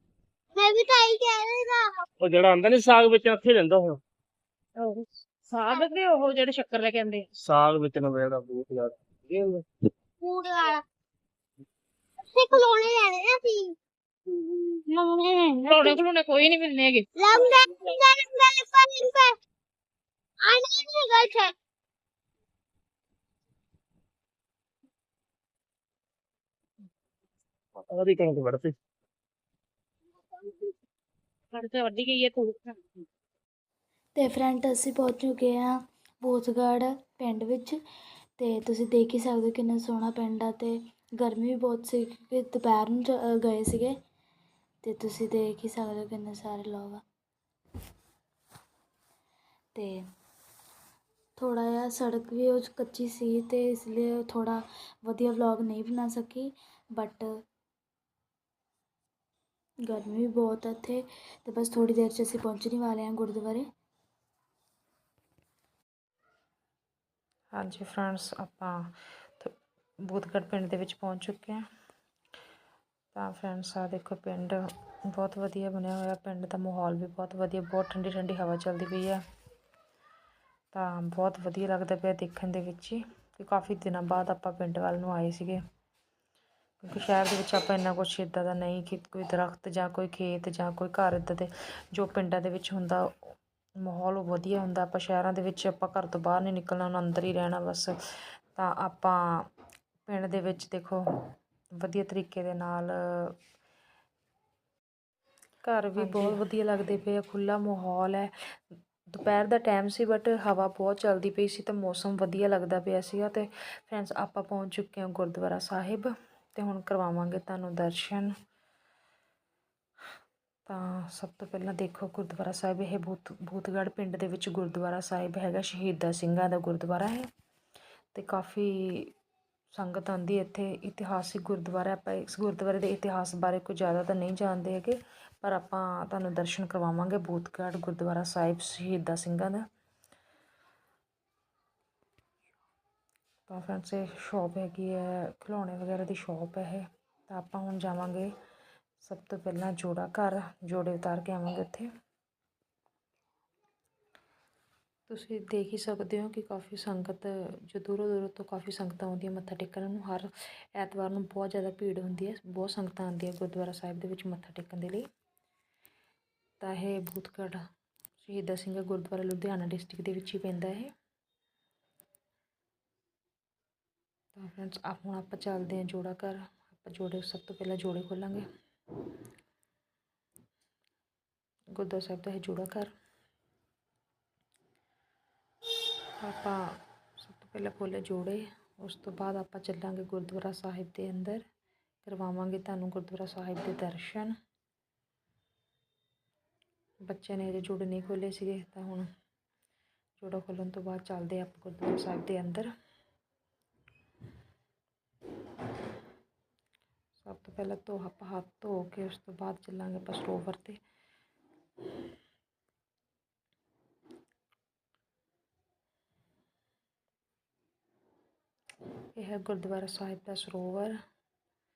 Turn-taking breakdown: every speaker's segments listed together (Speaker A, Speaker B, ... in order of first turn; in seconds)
Speaker A: 0.6-2.0, 10.2-10.8, 12.3-13.8, 17.2-19.3, 20.4-21.5
Speaker B: 2.2-4.0, 7.4-9.7, 27.9-28.8
Speaker C: 5.6-6.7, 14.9-17.1, 31.6-32.7
Speaker D: 34.1-37.8, 38.4-44.0, 44.8-47.0, 49.8-50.1, 51.4-57.4, 59.9-63.7
Speaker E: 67.5-69.5, 70.1-71.6, 73.1-79.2, 80.7-85.6, 86.8-98.0, 98.5-99.5, 100.1-101.0, 101.8-103.4, 105.6-118.3, 120.7-127.3, 128.1-129.1, 129.7-139.7, 143.5-148.3, 149.0-151.9, 155.1-165.1, 166.6-167.6, 168.2-170.9, 174.4-178.5, 181.7-182.9, 186.2-191.4, 192.1-194.3, 197.1-199.1, 200.2-202.7, 207.2-210.8, 219.2-220.9